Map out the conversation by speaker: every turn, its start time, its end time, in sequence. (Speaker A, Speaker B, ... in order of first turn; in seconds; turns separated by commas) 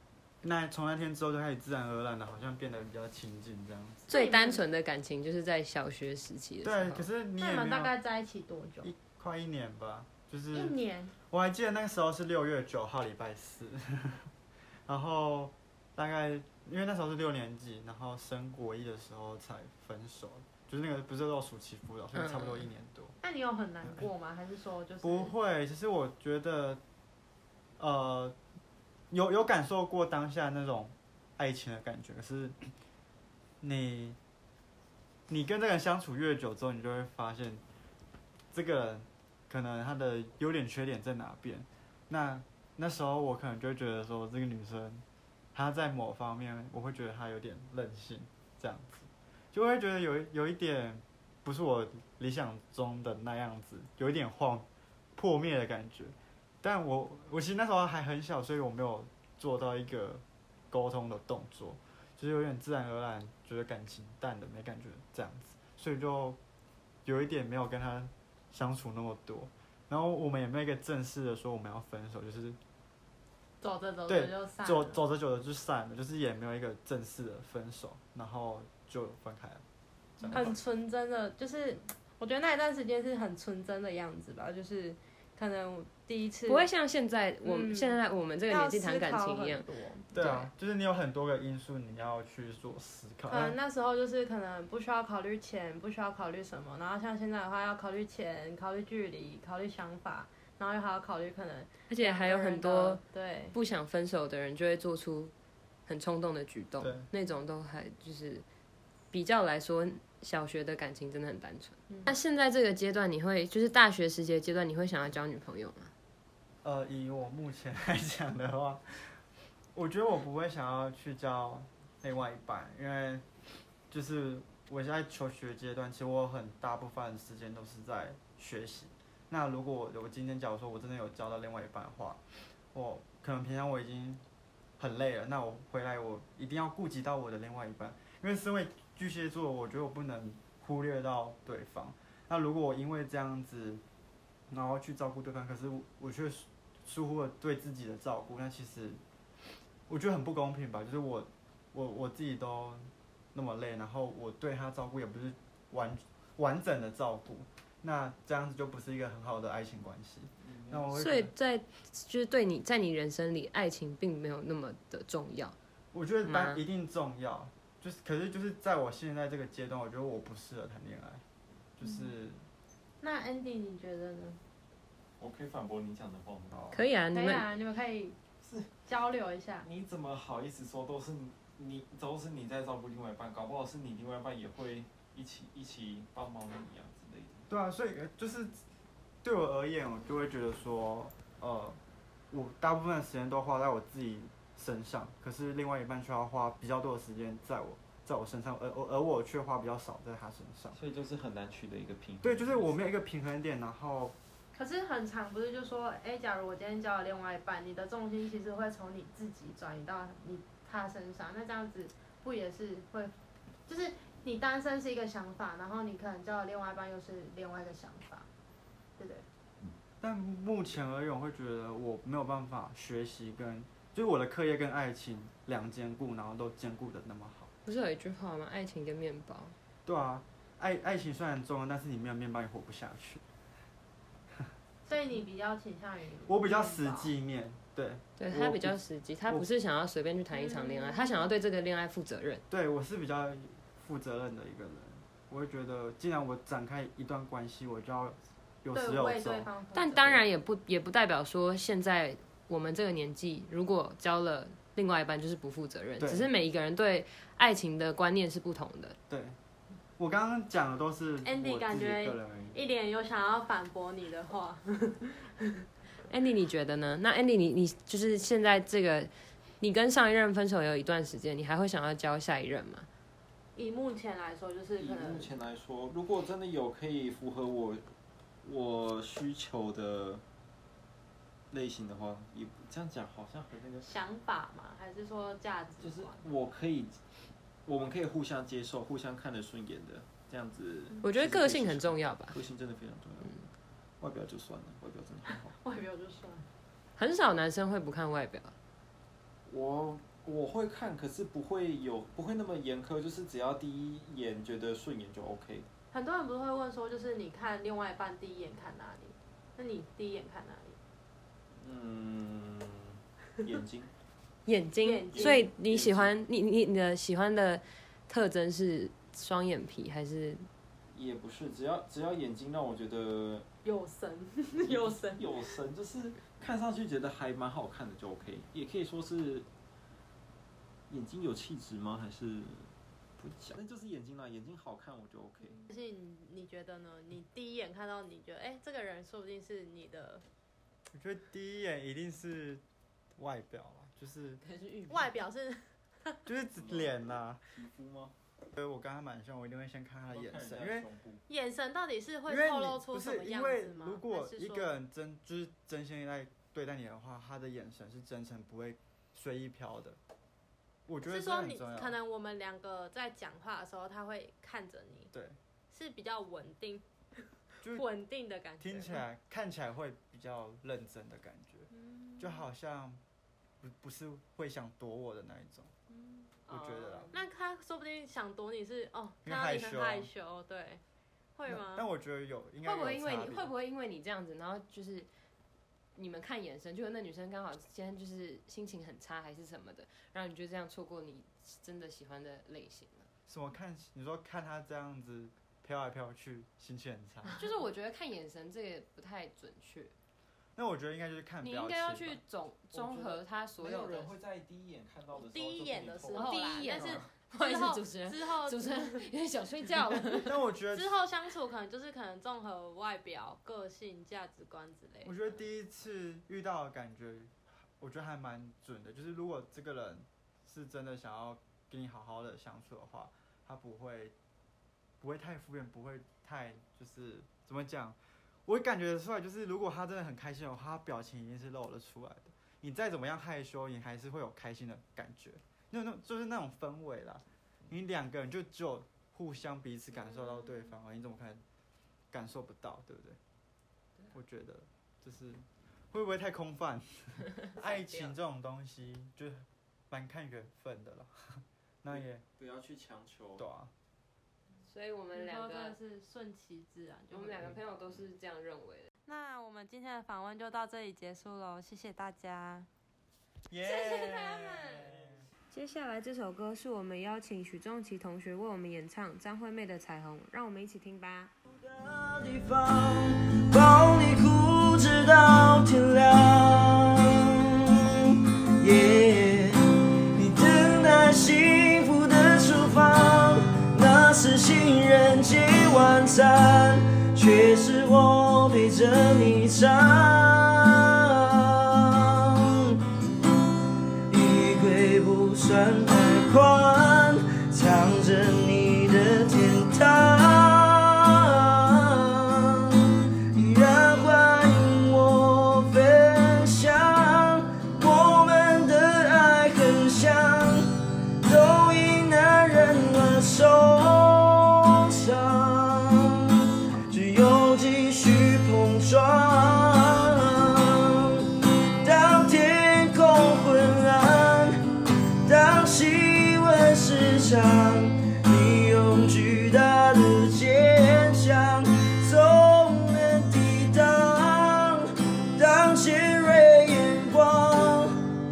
Speaker A: 0.4-4.0, Speaker B: 4.1-4.6, Speaker C: 4.1-7.0, Speaker A: 6.6-7.9, Speaker B: 7.4-8.9, Speaker A: 8.8-10.8, Speaker B: 10.5-11.1, Speaker A: 11.3-14.3, Speaker A: 14.9-23.1, Speaker C: 22.1-22.7, Speaker B: 23.2-25.3, Speaker A: 25.0-26.8, Speaker A: 27.8-28.4, Speaker A: 29.1-32.7, Speaker A: 33.6-34.2, Speaker A: 35.3-37.6, Speaker A: 38.5-66.4, Speaker A: 67.0-72.6, Speaker B: 73.6-75.0, Speaker A: 74.1-79.6, Speaker A: 80.2-80.6, Speaker B: 80.3-86.7, Speaker C: 86.5-90.5, Speaker B: 87.4-88.0, Speaker B: 88.5-90.0, Speaker A: 90.1-93.6, Speaker B: 93.3-103.6, Speaker C: 101.9-103.0, Speaker C: 103.5-105.3, Speaker C: 105.9-108.5, Speaker A: 106.8-107.1, Speaker C: 109.1-115.9, Speaker A: 116.6-123.2, Speaker A: 123.9-132.2, Speaker A: 132.7-134.2, Speaker A: 134.8-143.8, Speaker A: 144.5-149.0, Speaker A: 149.9-161.3, Speaker D: 160.4-160.9, Speaker C: 160.9-165.6, Speaker A: 165.9-171.2, Speaker C: 166.2-166.6, Speaker A: 171.8-172.4, Speaker B: 171.8-172.1, Speaker B: 173.0-174.4, Speaker D: 175.2-176.6, Speaker A: 176.5-176.8, Speaker C: 176.7-177.4, Speaker B: 177.1-178.2, Speaker D: 178.4-178.7, Speaker B: 178.9-179.7, Speaker D: 179.6-187.5, Speaker A: 187.5-188.6, Speaker A: 189.2-191.8, Speaker A: 192.3-200.8, Speaker D: 200.7-202.8, Speaker A: 202.2-204.1, Speaker B: 204.5-213.1, Speaker B: 213.7-218.3, Speaker B: 219.0-219.2, Speaker A: 220.0-227.5, Speaker C: 227.6-229.6, Speaker A: 229.8-233.2, Speaker B: 234.9-237.1, Speaker A: 236.3-239.5, Speaker C: 238.2-242.4, Speaker B: 240.3-241.3, Speaker A: 242.5-249.5, Speaker B: 248.7-250.2, Speaker C: 249.7-258.9, Speaker A: 256.0-256.3, Speaker A: 259.1-259.4, Speaker A: 260.0-262.6, Speaker B: 261.2-265.3, Speaker C: 266.1-272.9, Speaker B: 273.5-275.3, Speaker D: 274.8-277.9, Speaker D: 278.4-280.2, Speaker D: 281.5-283.9, Speaker B: 283.8-286.2, Speaker D: 285.8-287.0, Speaker D: 287.6-293.4, Speaker C: 291.0-292.4, Speaker D: 294.0-295.5, Speaker B: 295.6-296.4, Speaker C: 297.0-298.5, Speaker D: 299.5-305.7, Speaker B: 305.9-310.8, Speaker D: 311.6-313.9, Speaker C: 314.4-320.5, Speaker B: 314.8-315.4, Speaker D: 315.1-316.1, Speaker D: 320.9-323.4, Speaker B: 323.6-325.5, Speaker D: 324.6-329.5, Speaker D: 330.9-335.6, Speaker B: 335.6-340.2, Speaker A: 340.9-342.6, Speaker A: 343.1-344.4, Speaker C: 344.4-345.1, Speaker B: 344.9-346.2, Speaker A: 346.2-347.4, Speaker D: 346.6-348.1, Speaker A: 348.6-350.9, Speaker D: 350.1-351.2, Speaker B: 351.3-354.8, Speaker A: 352.3-360.0, Speaker A: 360.9-361.9, Speaker B: 361.0-365.1, Speaker A: 365.1-365.4, Speaker B: 365.7-369.0, Speaker A: 368.6-373.0, Speaker B: 371.7-372.5, Speaker A: 373.6-375.7, Speaker B: 375.9-376.3, Speaker A: 376.5-377.1, Speaker C: 376.5-377.1, Speaker B: 377.1-380.8, Speaker A: 379.2-380.1, Speaker B: 381.3-381.8, Speaker A: 381.5-383.5, Speaker C: 382.6-385.1, Speaker C: 385.9-393.1, Speaker A: 393.3-397.4, Speaker C: 397.3-399.9, Speaker A: 400.5-402.2, Speaker C: 401.4-404.1, Speaker D: 402.7-406.9, Speaker B: 405.1-409.1, Speaker C: 406.1-410.3, Speaker B: 409.9-410.2, Speaker A: 410.2-410.9, Speaker B: 410.7-415.4, Speaker A: 415.0-424.1, Speaker A: 425.0-441.4, Speaker A: 442.1-443.2, Speaker A: 444.1-452.2, Speaker C: 447.6-448.1, Speaker D: 451.9-453.4, Speaker A: 453.4-453.7, Speaker C: 454.6-455.8, Speaker B: 455.1-457.7, Speaker C: 457.1-458.9, Speaker B: 459.1-462.7, Speaker A: 463.5-465.3, Speaker B: 463.6-464.9, Speaker C: 465.5-471.3, Speaker E: 471.6-479.6, Speaker E: 480.1-492.8, Speaker E: 494.1-537.9